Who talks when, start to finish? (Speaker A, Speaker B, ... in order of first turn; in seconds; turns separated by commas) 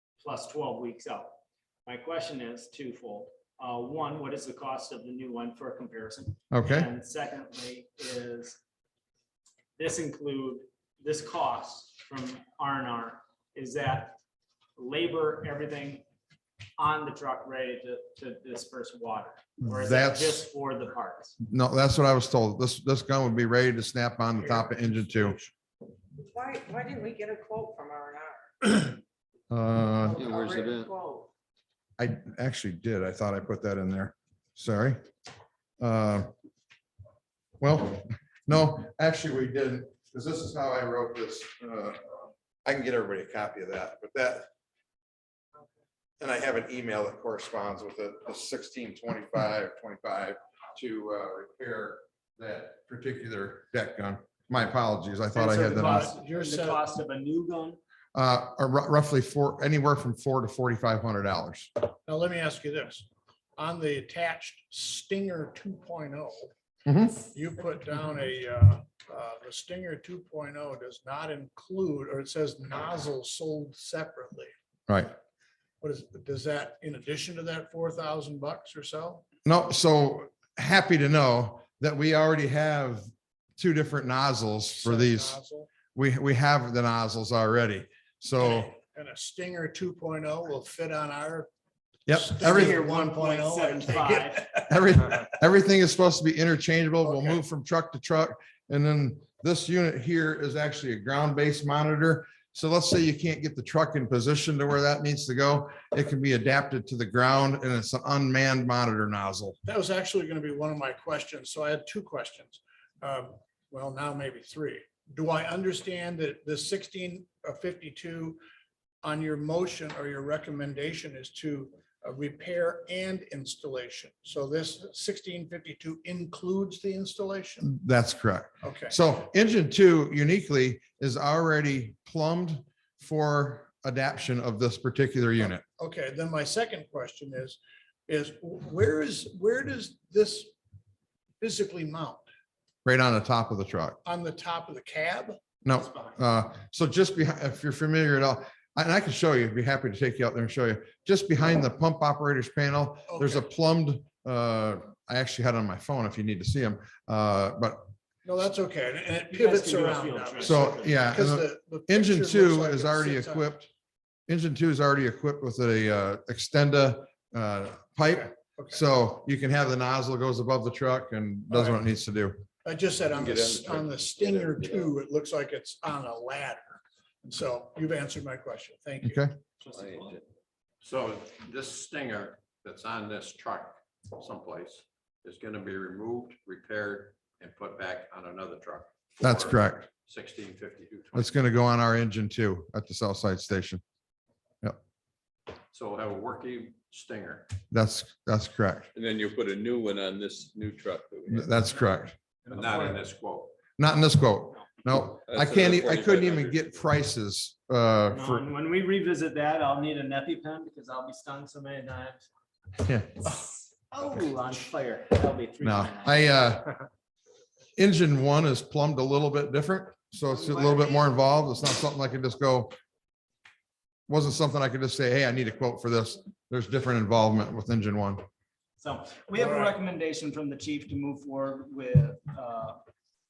Speaker A: 0.2-8.6, Speaker B: 6.5-6.9, Speaker A: 9.8-14.2, Speaker A: 14.8-16.0, Speaker A: 16.8-21.4, Speaker B: 19.6-20.4, Speaker B: 21.4-25.4, Speaker C: 24.4-25.5, Speaker D: 26.1-29.0, Speaker B: 29.5-30.2, Speaker D: 30.0-31.3, Speaker E: 30.2-30.9, Speaker B: 32.0-35.0, Speaker B: 35.8-36.3, Speaker B: 37.6-44.5, Speaker B: 46.2-56.1, Speaker C: 55.4-56.8, Speaker A: 55.4-57.8, Speaker B: 58.1-61.7, Speaker C: 62.0-66.5, Speaker B: 66.8-67.2, Speaker C: 67.3-74.5, Speaker B: 74.9-75.1, Speaker C: 75.8-79.2, Speaker B: 79.4-85.4, Speaker C: 84.7-85.7, Speaker B: 85.9-88.7, Speaker C: 88.4-91.5, Speaker B: 92.1-92.8, Speaker C: 92.1-94.6, Speaker A: 92.4-94.5, Speaker B: 94.7-109.5, Speaker C: 109.6-118.4, Speaker C: 119.0-127.6, Speaker B: 127.6-135.6, Speaker C: 128.6-128.9, Speaker C: 135.8-140.5, Speaker C: 141.4-142.2, Speaker B: 142.8-144.0, Speaker C: 144.0-145.4, Speaker B: 145.6-157.9, Speaker C: 153.1-153.4, Speaker C: 158.2-163.5, Speaker A: 159.3-161.2, Speaker B: 160.4-163.7, Speaker B: 164.3-172.4, Speaker C: 171.5-171.8, Speaker C: 172.6-179.2, Speaker E: 173.1-174.9, Speaker B: 179.0-179.3, Speaker A: 179.6-180.2, Speaker E: 179.7-180.2, Speaker F: 180.8-191.3, Speaker B: 189.2-189.9, Speaker B: 191.1-193.8, Speaker F: 195.7-197.5, Speaker B: 197.7-198.9, Speaker E: 198.9-201.5, Speaker B: 201.3-202.1, Speaker A: 202.4-203.0, Speaker F: 202.5-203.5, Speaker B: 203.8-208.4, Speaker E: 205.2-206.9, Speaker A: 208.1-212.2, Speaker B: 212.8-213.1, Speaker A: 213.2-216.3, Speaker B: 215.6-216.7, Speaker B: 217.8-222.7, Speaker B: 224.1-228.2, Speaker A: 228.8-232.8, Speaker C: 229.4-229.7